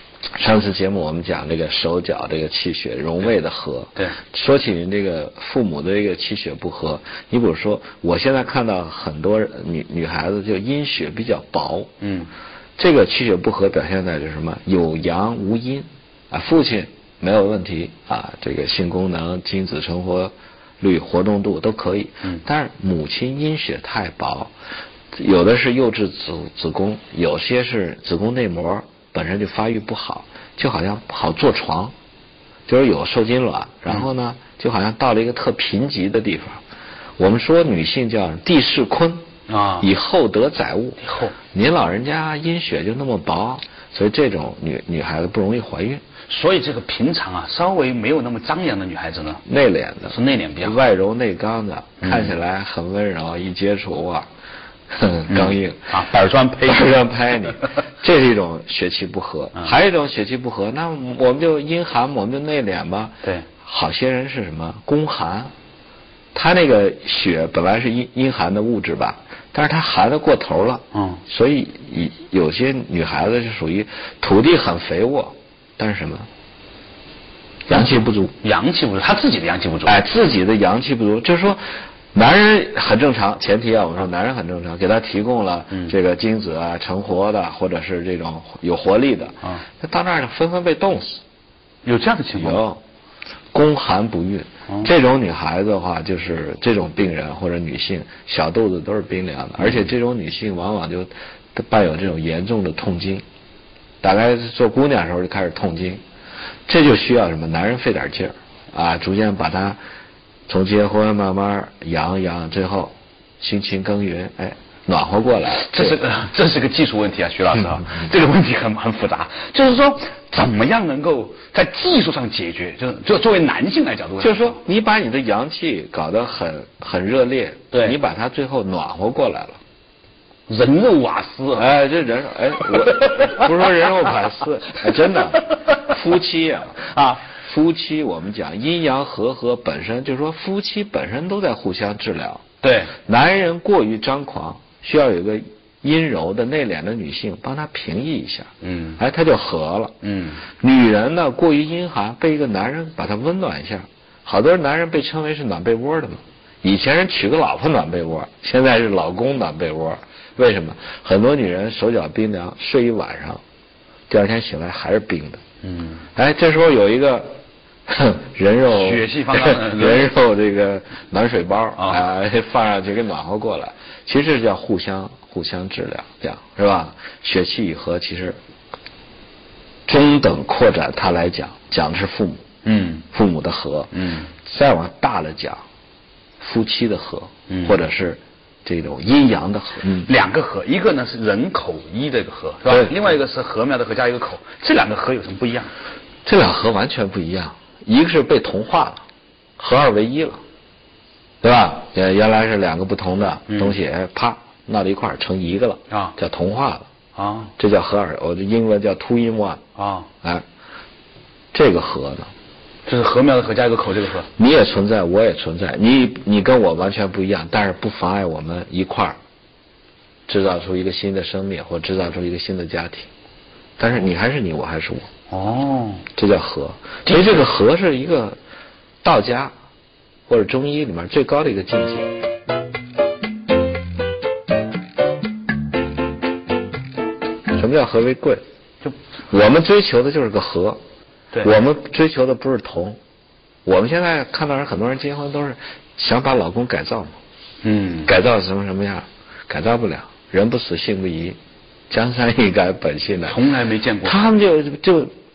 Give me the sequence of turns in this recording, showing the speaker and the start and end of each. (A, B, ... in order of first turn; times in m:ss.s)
0:00.4-0:11.9 A
0:12.0-0:12.3 B
0:12.8-0:24.5 A
0:25.1-0:31.9 A
0:32.7-0:36.6 A
0:37.2-0:39.2 A
0:39.5-0:39.9 B
0:39.8-0:41.0 A
0:41.0-0:41.3 B
0:41.5-0:46.0 A
0:46.3-0:49.4 B
0:49.4-0:54.3 A
0:50.1-0:50.8 B
0:52.0-0:52.3 B
0:54.9-0:55.9 A
0:55.3-0:57.0 B
0:56.6-1:05.5 A
1:06.3-1:16.3 A
1:10.9-1:11.2 B
1:17.7-1:18.3 A
1:17.7-1:20.0 B
1:19.8-1:31.2 A
1:31.8-1:32.6 B
1:32.3-1:32.8 A
1:33.5-1:43.2 A
1:44.0-1:46.0 A
1:46.7-1:49.8 A
1:50.5-1:56.0 A
1:55.6-2:04.6 B
2:04.2-2:09.6 A
2:07.7-2:08.0 B
2:10.5-2:11.7 B
2:11.5-2:22.4 A
2:12.9-2:13.5 B
2:15.5-2:15.9 B
2:16.8-2:17.2 B
2:22.6-2:22.9 B
2:23.0-2:29.9 A
2:28.6-2:29.0 B
2:30.0-2:30.4 B
2:30.6-2:43.4 A
2:44.1-2:45.4 A
2:45.6-2:46.0 B
2:46.1-2:47.4 A
2:47.9-2:58.4 A
2:48.7-2:50.1 B
2:51.8-2:52.0 B
2:59.9-3:02.4 A
3:02.6-3:03.0 B
3:03.1-3:05.6 A
3:03.9-3:04.3 B
3:06.4-3:10.1 A
3:07.5-3:07.7 B
3:10.0-3:15.7 B
3:12.7-3:13.0 A
3:16.2-3:19.0 A
3:19.6-3:20.4 A
3:21.4-3:26.9 A
3:23.5-3:23.8 B
3:25.9-3:26.1 B
3:27.2-3:27.5 B
3:27.6-3:29.6 A
3:29.8-3:30.1 B
3:31.5-3:32.3 A
3:32.8-3:34.3 B
3:34.4-3:39.2 A
3:40.3-3:43.1 A
3:43.8-3:45.1 A
3:45.3-3:46.0 B
3:46.2-3:48.4 A
3:49.0-3:49.5 A
3:50.3-3:52.1 A
3:57.5-3:58.4 A
3:59.3-4:00.8 A
4:01.4-4:03.0 A
4:03.6-4:07.1 A
4:07.6-4:08.1 B
4:08.0-4:11.4 A
4:11.9-4:13.4 A
4:13.3-4:14.2 B
4:14.0-4:15.1 A